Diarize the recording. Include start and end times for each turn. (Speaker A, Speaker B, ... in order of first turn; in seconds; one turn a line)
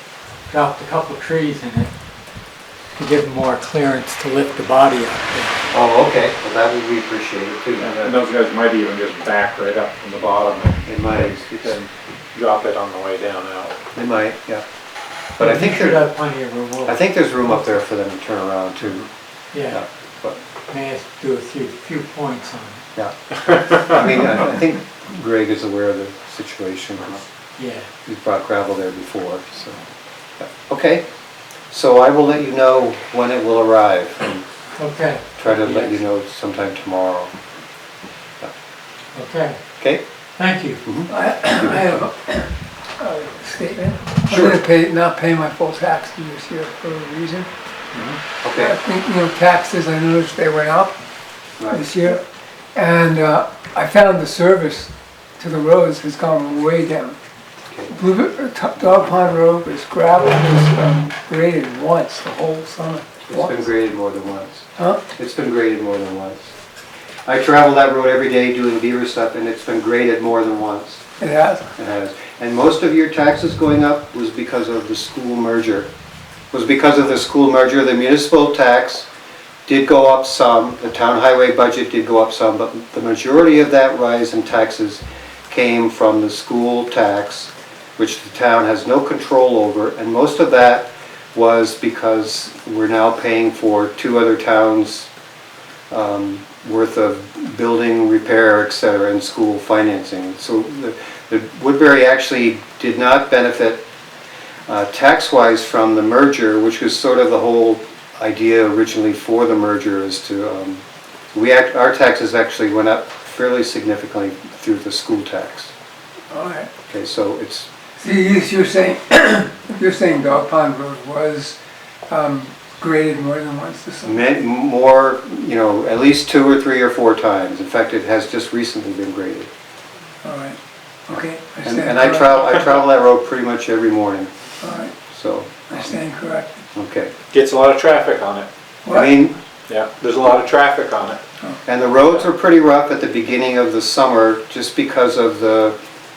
Speaker A: 0.5-1.9
Speaker A: 3.0-5.6
Speaker B: 5.7-8.2
Speaker C: 7.8-13.8
Speaker B: 10.8-11.8
Speaker B: 13.9-14.6
Speaker B: 15.4-16.1
Speaker A: 15.4-17.8
Speaker B: 16.8-19.1
Speaker A: 19.5-19.8
Speaker B: 19.7-20.4
Speaker A: 20.7-22.8
Speaker B: 22.9-27.2
Speaker A: 27.6-27.9
Speaker B: 28.0-29.8
Speaker B: 30.4-31.0
Speaker B: 31.7-34.5
Speaker A: 34.7-36.0
Speaker B: 35.4-37.3
Speaker A: 39.1-39.6
Speaker A: 40.4-40.8
Speaker B: 40.8-41.8
Speaker D: 41.1-47.5
Speaker B: 44.3-44.6
Speaker C: 47.9-48.2
Speaker B: 48.4-48.7
Speaker D: 48.6-51.0
Speaker B: 51.6-51.9
Speaker D: 51.7-52.2
Speaker D: 52.7-57.1
Speaker B: 57.7-57.9
Speaker D: 57.9-63.5
Speaker B: 63.3-66.5
Speaker D: 64.8-65.0
Speaker B: 67.2-71.0
Speaker D: 71.2-71.7
Speaker B: 71.8-75.9
Speaker B: 76.5-79.1
Speaker B: 79.7-95.1
Speaker B: 95.9-103.8
Speaker B: 104.7-110.8
Speaker B: 111.3-115.7
Speaker D: 116.3-116.7
Speaker B: 116.9-117.7
Speaker D: 118.0-121.6
Speaker D: 122.1-124.2
Speaker B: 124.0-129.5
Speaker D: 130.2-130.6
Speaker D: 131.1-132.4
Speaker B: 131.6-134.3
Speaker D: 134.6-134.9
Speaker B: 135.1-135.9
Speaker D: 135.7-136.6
Speaker B: 136.7-137.1
Speaker C: 137.3-138.5
Speaker D: 138.8-139.2
Speaker B: 138.9-139.4
Speaker C: 139.7-141.2
Speaker B: 141.6-145.8